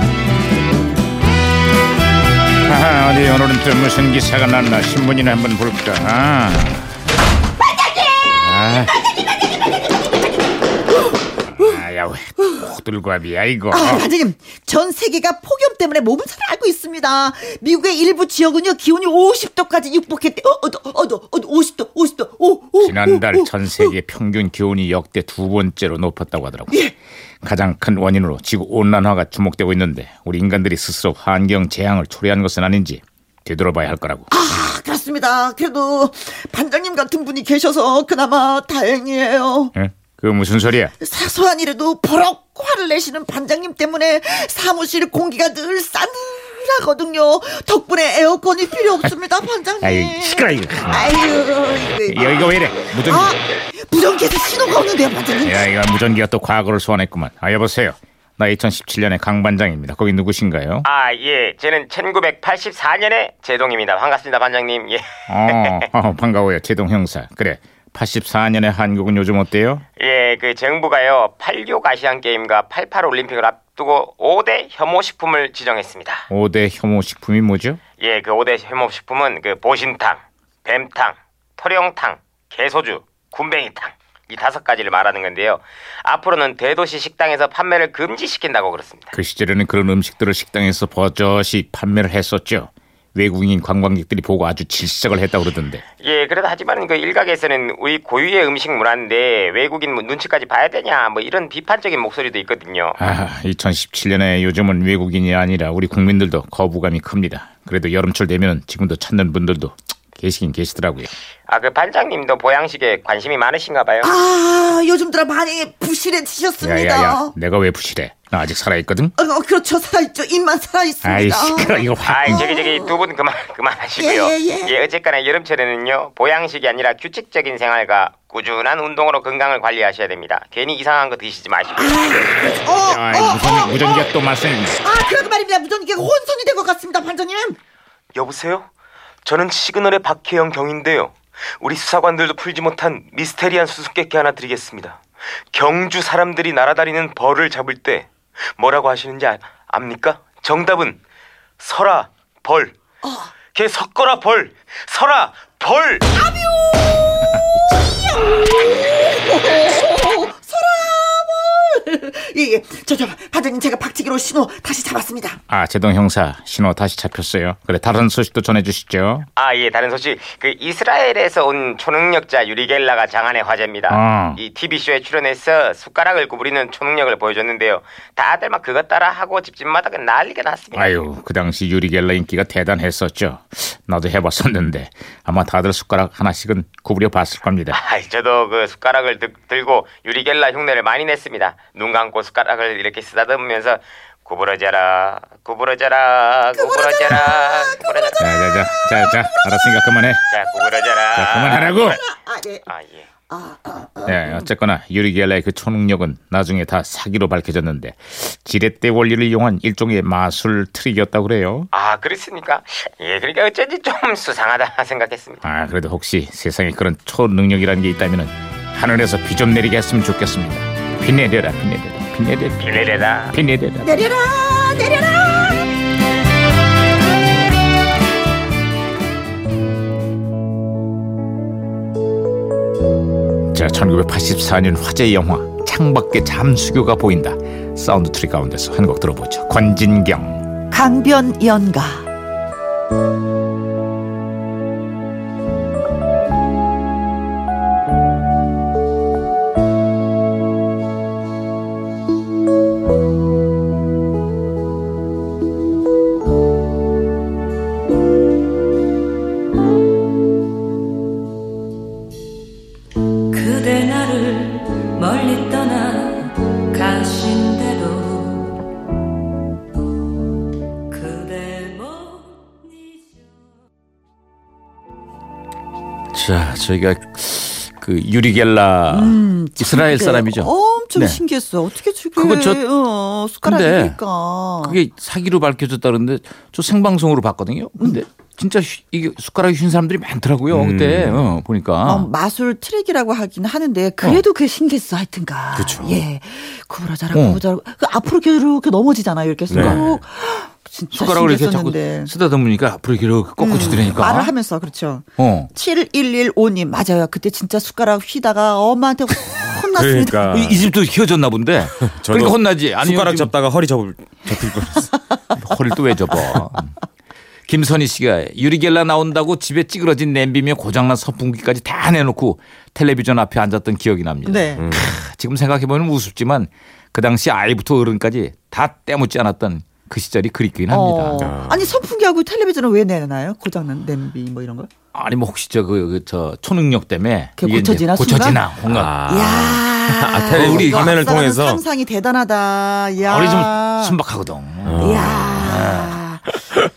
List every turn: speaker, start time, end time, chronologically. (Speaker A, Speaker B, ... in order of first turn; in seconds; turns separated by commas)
Speaker A: 2.7-6.8, Speaker A: 8.3-9.0, Speaker A: 11.5-14.1, Speaker B: 13.7-23.9, Speaker A: 22.8-26.8, Speaker A: 27.4-34.3, Speaker B: 34.3-39.7, Speaker A: 39.8-40.9, Speaker B: 41.0-55.7, Speaker A: 49.8-51.3, Speaker A: 52.0-53.4, Speaker A: 55.4-60.9, Speaker C: 60.8-65.9, Speaker A: 65.3-69.8, Speaker C: 70.0-76.3, Speaker A: 76.3-77.8, Speaker C: 78.0-89.1, Speaker A: 89.1-95.8, Speaker C: 96.0-103.0, Speaker A: 103.0-111.1, Speaker C: 111.5-114.1, Speaker B: 114.0-117.3, Speaker A: 116.6-119.2, Speaker B: 119.2-123.0, Speaker A: 121.0-122.5, Speaker C: 122.0-132.3, Speaker B: 124.0-124.7, Speaker B: 131.8-134.1, Speaker A: 132.8-134.8, Speaker B: 134.8-137.6, Speaker C: 138.1-138.7, Speaker C: 139.2-145.0, Speaker C: 145.5-151.0, Speaker C: 151.6-152.8, Speaker C: 153.5-156.1, Speaker B: 156.2-156.6, Speaker B: 158.1-165.4, Speaker A: 165.5-169.3, Speaker C: 169.4-181.0, Speaker A: 173.9-174.4, Speaker A: 180.7-187.8, Speaker C: 187.7-198.2, Speaker B: 196.5-200.0, Speaker A: 198.2-200.2, Speaker C: 200.3-201.9, Speaker A: 201.2-202.0, Speaker B: 201.8-202.7, Speaker C: 202.7-203.1, Speaker B: 203.3-204.5, Speaker A: 204.1-211.7, Speaker C: 211.7-215.4, Speaker A: 215.4-222.7, Speaker C: 222.6-223.4, Speaker A: 223.3-223.9, Speaker B: 223.8-225.7, Speaker A: 233.5-240.4, Speaker B: 240.7-242.1, Speaker D: 263.3-268.7, Speaker D: 270.9-273.3, Speaker A: 276.1-281.2, Speaker B: 278.9-284.8, Speaker A: 282.2-282.6, Speaker A: 283.4-284.0, Speaker A: 284.6-292.1, Speaker E: 290.5-291.3, Speaker B: 291.8-302.1, Speaker E: 295.6-296.0, Speaker A: 297.1-297.4, Speaker E: 299.5-299.9, Speaker A: 299.5-299.9, Speaker A: 300.9-304.3, Speaker B: 303.4-310.4, Speaker A: 305.2-305.5, Speaker E: 309.8-310.6, Speaker A: 310.3-313.3, Speaker E: 311.9-314.8, Speaker A: 315.3-316.8, Speaker A: 317.5-331.3, Speaker B: 324.2-324.7, Speaker E: 324.6-324.9, Speaker B: 330.7-334.7, Speaker E: 331.2-331.8, Speaker A: 334.9-339.0, Speaker B: 337.4-338.4, Speaker E: 338.6-341.6, Speaker B: 339.1-344.0, Speaker A: 340.3-341.0, Speaker A: 343.0-346.0, Speaker E: 344.6-345.3, Speaker B: 344.8-346.4